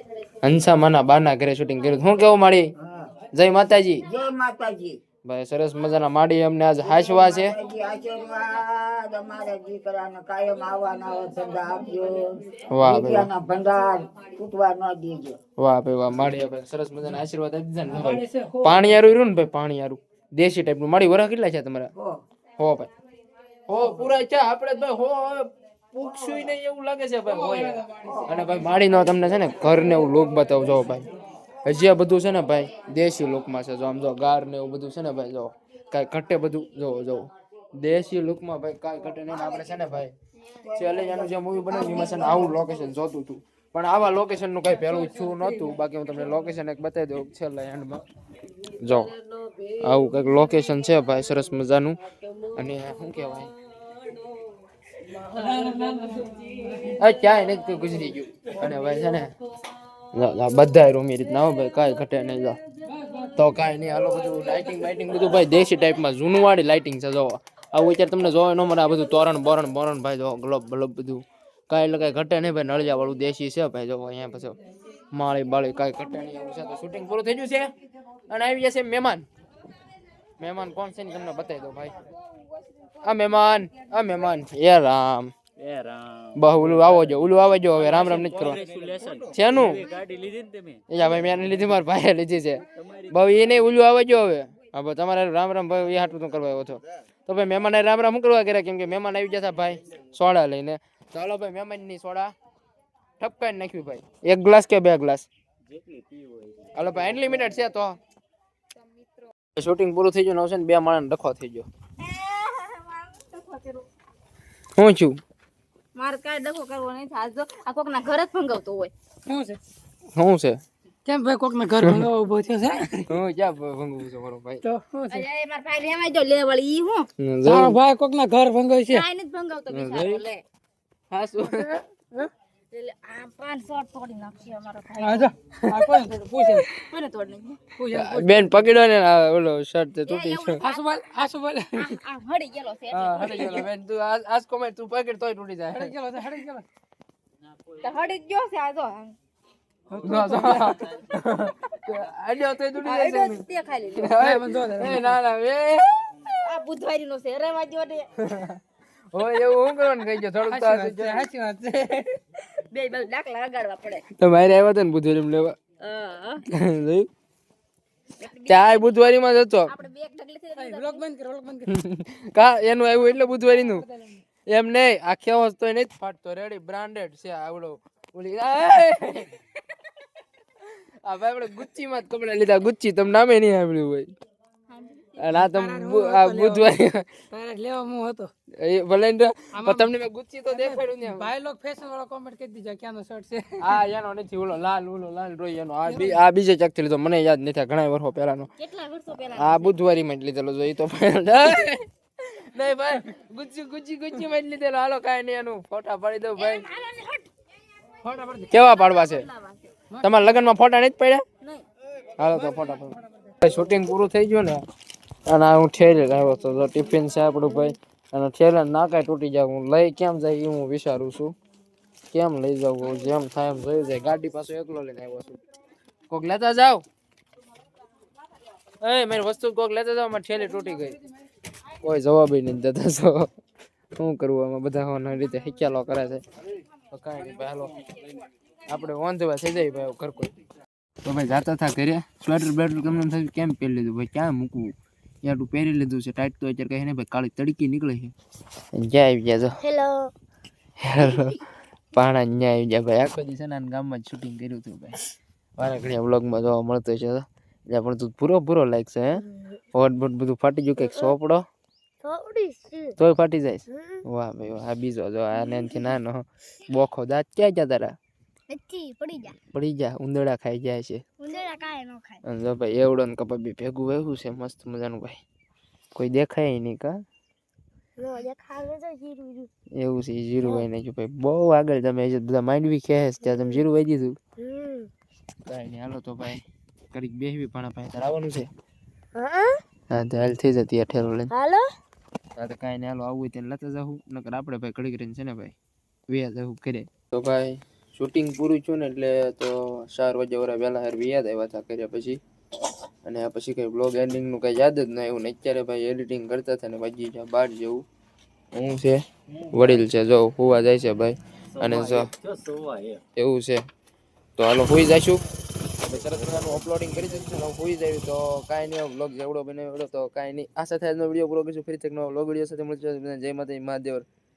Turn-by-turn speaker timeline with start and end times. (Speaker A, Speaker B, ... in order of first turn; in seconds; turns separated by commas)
Speaker A: 0.4-2.7, Speaker B: 2.8-3.1, Speaker A: 3.3-4.0, Speaker B: 4.1-5.0, Speaker A: 5.2-7.5, Speaker B: 6.9-15.4, Speaker A: 12.7-13.3, Speaker A: 15.6-21.9, Speaker C: 18.0-18.7, Speaker A: 22.6-22.9, Speaker A: 23.7-31.1, Speaker A: 31.6-40.1, Speaker B: 40.7-42.6, Speaker A: 40.7-48.0, Speaker A: 48.8-49.1, Speaker A: 49.8-52.0, Speaker A: 52.5-53.5, Speaker C: 55.5-56.3, Speaker A: 56.8-59.3, Speaker A: 60.1-62.6, Speaker A: 63.2-74.6, Speaker A: 75.1-77.7, Speaker A: 78.3-79.2, Speaker A: 80.4-82.1, Speaker A: 83.0-85.3, Speaker D: 85.6-87.0, Speaker A: 86.3-88.6, Speaker D: 87.9-90.8, Speaker A: 89.2-89.8, Speaker A: 90.9-102.3, Speaker D: 92.8-93.1, Speaker A: 103.2-105.3, Speaker D: 105.7-106.7, Speaker A: 106.7-107.9, Speaker A: 109.5-111.7, Speaker E: 112.0-113.9, Speaker A: 114.8-115.2, Speaker E: 115.9-118.9, Speaker C: 119.3-119.6, Speaker A: 120.1-120.6, Speaker C: 121.0-123.1, Speaker A: 121.8-122.1, Speaker A: 123.1-124.6, Speaker C: 124.6-125.2, Speaker E: 125.1-127.1, Speaker A: 127.2-127.8, Speaker C: 127.4-129.1, Speaker E: 128.9-130.4, Speaker A: 129.7-130.2, Speaker A: 131.1-131.7, Speaker C: 131.5-132.3, Speaker E: 132.7-135.3, Speaker C: 135.0-136.7, Speaker E: 136.7-137.6, Speaker C: 137.7-138.6, Speaker A: 137.9-140.6, Speaker E: 140.1-140.9, Speaker C: 140.6-142.0, Speaker E: 141.7-143.4, Speaker A: 142.9-145.9, Speaker C: 145.7-146.6, Speaker E: 147.8-149.2, Speaker C: 149.9-150.7, Speaker A: 150.0-153.4, Speaker E: 152.8-154.2, Speaker A: 153.9-155.9, Speaker C: 154.2-155.2, Speaker E: 156.3-158.1, Speaker A: 158.2-158.6, Speaker A: 159.1-161.3, Speaker C: 160.4-162.1, Speaker E: 162.4-164.1, Speaker A: 164.1-165.6, Speaker E: 165.8-166.4, Speaker A: 166.5-167.1, Speaker E: 168.2-169.0, Speaker A: 168.5-169.7, Speaker E: 169.7-171.1, Speaker C: 170.6-171.7, Speaker A: 171.7-173.9, Speaker C: 173.8-174.2, Speaker A: 174.5-179.3, Speaker A: 181.0-184.1, Speaker E: 184.7-185.2, Speaker A: 185.2-187.1, Speaker C: 185.3-186.7, Speaker C: 187.3-188.3, Speaker A: 188.6-191.3, Speaker C: 189.5-189.9, Speaker C: 190.5-193.7, Speaker A: 193.6-198.5, Speaker C: 195.8-196.2, Speaker E: 198.6-199.7, Speaker A: 199.3-206.7, Speaker E: 206.4-207.3, Speaker C: 208.0-208.4, Speaker A: 208.5-209.3, Speaker E: 208.5-209.7, Speaker A: 210.0-211.2, Speaker A: 212.2-214.6, Speaker A: 215.2-221.3, Speaker A: 222.1-225.4, Speaker A: 226.1-226.8, Speaker A: 228.8-231.0, Speaker A: 231.8-233.3, Speaker A: 234.0-236.2, Speaker A: 236.9-237.8, Speaker A: 238.7-240.3, Speaker A: 241.0-248.1, Speaker A: 248.7-249.6, Speaker E: 249.7-250.0, Speaker A: 250.8-251.4, Speaker A: 251.9-255.0, Speaker A: 255.6-261.4, Speaker E: 262.0-262.9, Speaker A: 263.0-267.9, Speaker E: 268.5-269.4, Speaker A: 269.5-271.0, Speaker E: 271.2-272.2, Speaker A: 272.2-275.2, Speaker A: 275.9-277.0, Speaker E: 278.0-279.5, Speaker A: 279.8-284.2, Speaker E: 284.4-284.9, Speaker A: 285.4-288.5, Speaker E: 289.2-289.5, Speaker A: 289.9-291.3, Speaker A: 292.4-295.5, Speaker A: 296.1-302.2, Speaker A: 303.0-307.8, Speaker A: 308.5-312.1, Speaker D: 309.5-309.8, Speaker D: 311.5-313.0, Speaker A: 313.1-313.6, Speaker A: 314.4-315.2, Speaker A: 315.8-324.1, Speaker D: 315.9-316.7